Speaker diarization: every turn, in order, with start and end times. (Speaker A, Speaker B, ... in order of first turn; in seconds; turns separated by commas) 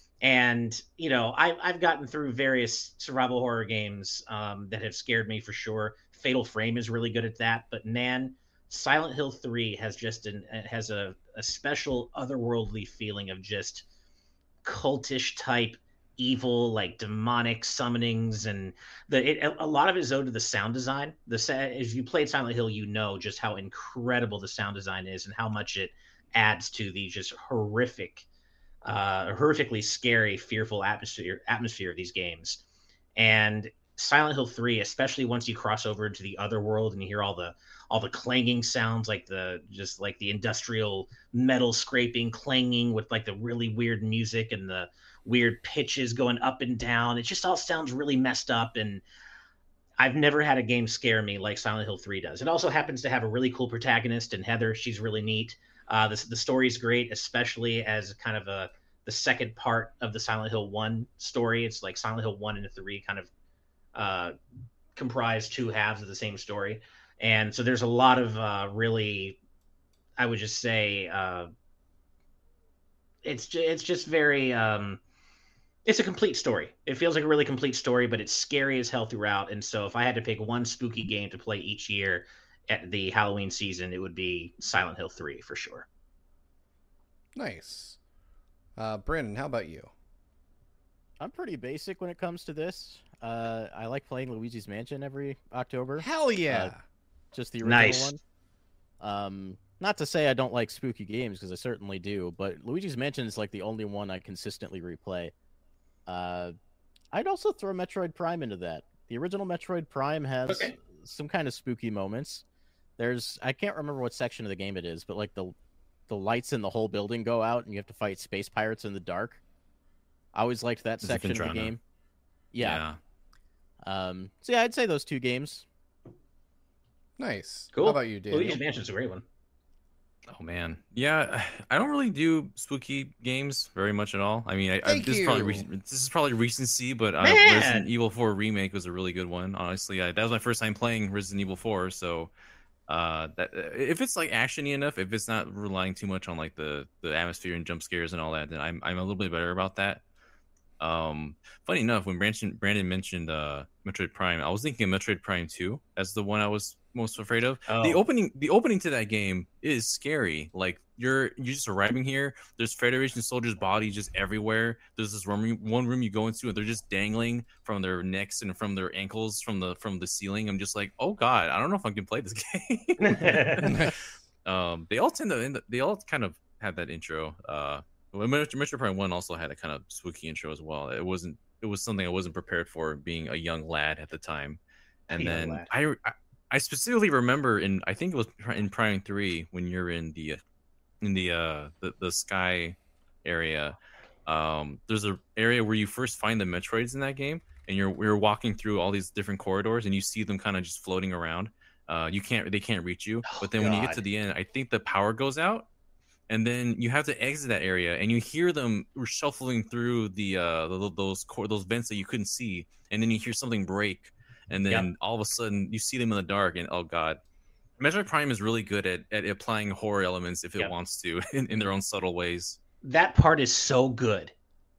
Speaker A: 0.2-13.8, Speaker A: 14.6-28.2, Speaker A: 28.9-32.6, Speaker A: 33.2-49.0, Speaker A: 50.0-63.3, Speaker A: 63.9-64.3, Speaker A: 65.0-69.4, Speaker A: 70.2-71.5, Speaker A: 73.2-75.0, Speaker A: 75.8-85.9, Speaker B: 87.3-88.0, Speaker B: 88.8-89.9, Speaker C: 91.2-96.7, Speaker B: 96.0-96.8, Speaker C: 97.3-98.2, Speaker A: 97.6-98.1, Speaker C: 99.0-105.3, Speaker C: 106.1-106.5, Speaker C: 107.1-112.4, Speaker A: 110.5-110.7, Speaker C: 113.0-115.5, Speaker C: 116.1-119.4, Speaker C: 120.3-121.8, Speaker D: 121.0-121.7, Speaker C: 122.5-122.8, Speaker D: 122.6-123.0, Speaker C: 123.8-125.6, Speaker B: 127.2-128.6, Speaker A: 127.7-129.2, Speaker D: 130.3-142.3, Speaker B: 134.8-135.7, Speaker A: 137.2-137.9, Speaker D: 142.9-150.0, Speaker D: 150.8-184.6, Speaker A: 157.7-158.0, Speaker A: 173.0-173.6, Speaker B: 173.6-174.0, Speaker A: 185.1-185.7, Speaker D: 185.1-190.4, Speaker D: 191.0-205.7, Speaker A: 203.3-204.0, Speaker C: 203.6-203.9, Speaker D: 206.3-217.2, Speaker D: 217.8-222.6, Speaker A: 222.8-224.3